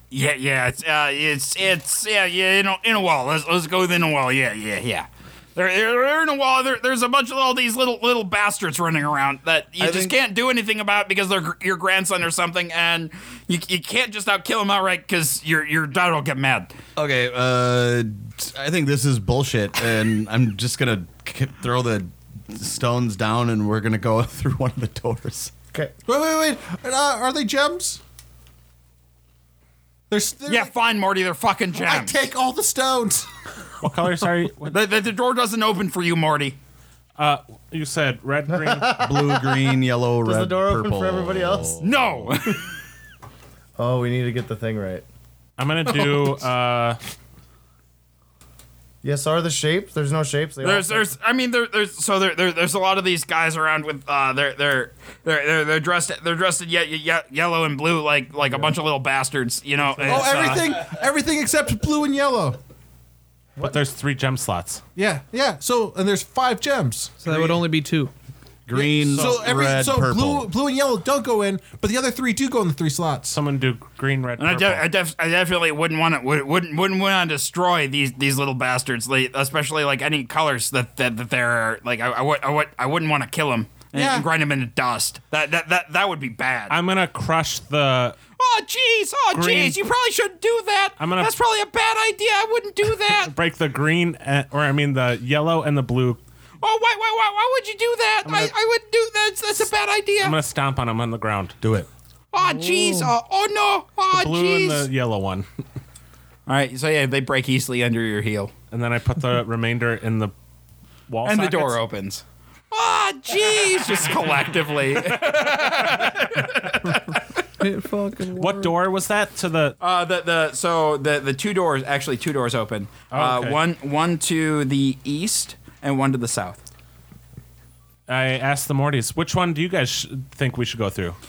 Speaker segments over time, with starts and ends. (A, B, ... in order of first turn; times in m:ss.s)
0:00.1-0:16.7 A
0:09.8-0:10.2 B
0:17.0-0:25.5 B
0:26.0-0:28.0 C
0:30.1-0:30.7 C
0:30.5-0:32.2 A
0:31.8-0:33.3 C
0:33.8-0:34.8 D
0:34.7-0:36.6 A
0:37.2-0:39.0 D
0:38.5-0:41.8 E
0:38.9-0:42.3 B
0:41.8-0:42.6 A
0:43.8-0:45.0 E
0:45.6-0:47.0 D
0:49.0-0:51.1 E
0:50.6-1:00.7 A
0:59.9-1:00.6 D
1:00.0-1:02.6 C
1:03.6-1:04.8 D
1:05.0-1:07.6 C
1:07.2-1:08.1 F
1:08.7-1:10.5 B
1:08.7-1:13.4 C
1:13.3-1:14.8 D
1:14.4-1:26.8 A
1:23.9-1:24.3 C
1:26.7-1:28.2 D
1:28.4-1:33.3 A
1:29.3-1:29.8 D
1:31.0-1:31.3 D
1:33.1-1:36.2 D
1:36.6-1:40.4 A
1:38.2-1:38.5 D
1:40.2-1:41.6 D
1:41.6-1:41.9 B
1:42.3-1:44.8 A
1:42.4-1:43.1 F
1:44.1-1:45.5 D
1:46.5-1:48.5 A
1:48.7-1:50.3 D
1:51.1-1:51.8 D
1:51.2-1:57.0 A
1:54.0-1:54.3 D
1:54.9-1:56.2 D
1:56.9-1:58.7 F
1:58.3-1:59.8 D
1:59.8-2:06.6 A
2:03.1-2:03.6 D
2:08.1-2:11.2 D